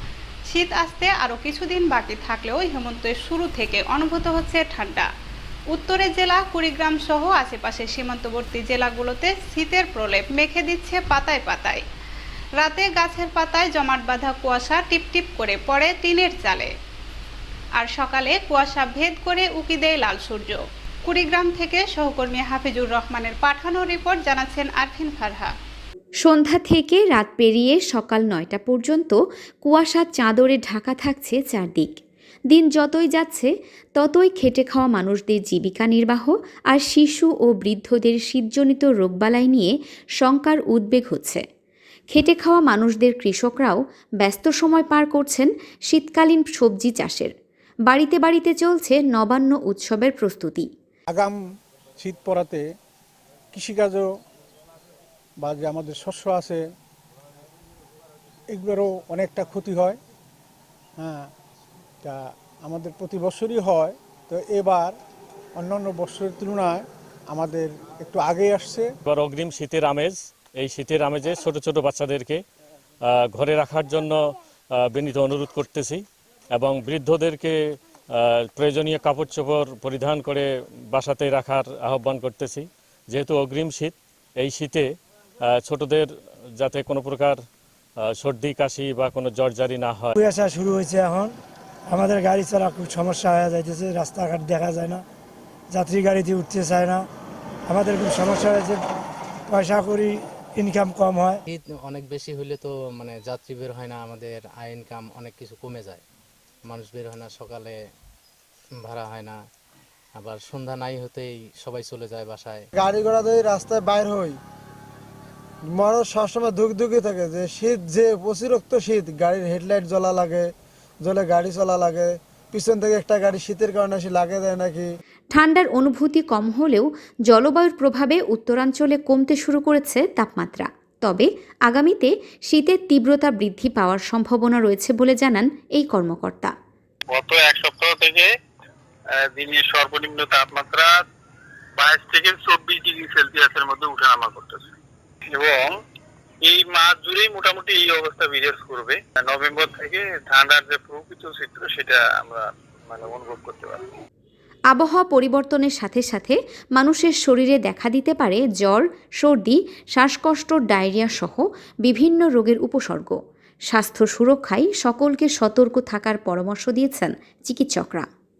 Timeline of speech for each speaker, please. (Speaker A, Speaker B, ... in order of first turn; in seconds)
Speaker A: 0.5-5.1, 5.7-11.8, 12.6-16.7, 17.8-25.5
Speaker B: 26.2-31.9, 32.5-41.4, 42.1-47.3, 47.9-50.7, 125.3-136.5, 154.7-163.2, 163.7-168.1
Speaker C: 51.1-51.4, 52.0-52.6, 53.5-54.1, 55.4-56.6, 58.5-60.0, 61.0-61.3, 62.0-64.9, 65.6-68.9
Speaker D: 69.1-72.4, 73.0-74.2, 74.7-76.0, 76.5-77.5, 78.1-84.9, 85.4-86.1, 86.6-87.4, 88.1-90.1
Speaker E: 90.1-91.3, 91.9-95.0, 95.7-97.0, 97.7-98.8, 99.5-101.4
Speaker F: 101.5-106.0, 106.7-107.8, 108.8-109.4, 110.2-112.7
Speaker G: 112.8-114.4, 115.7-120.5, 121.0-124.8
Speaker H: 137.1-138.3, 139.1-141.0, 141.8-144.7, 145.3-145.8, 146.4-153.8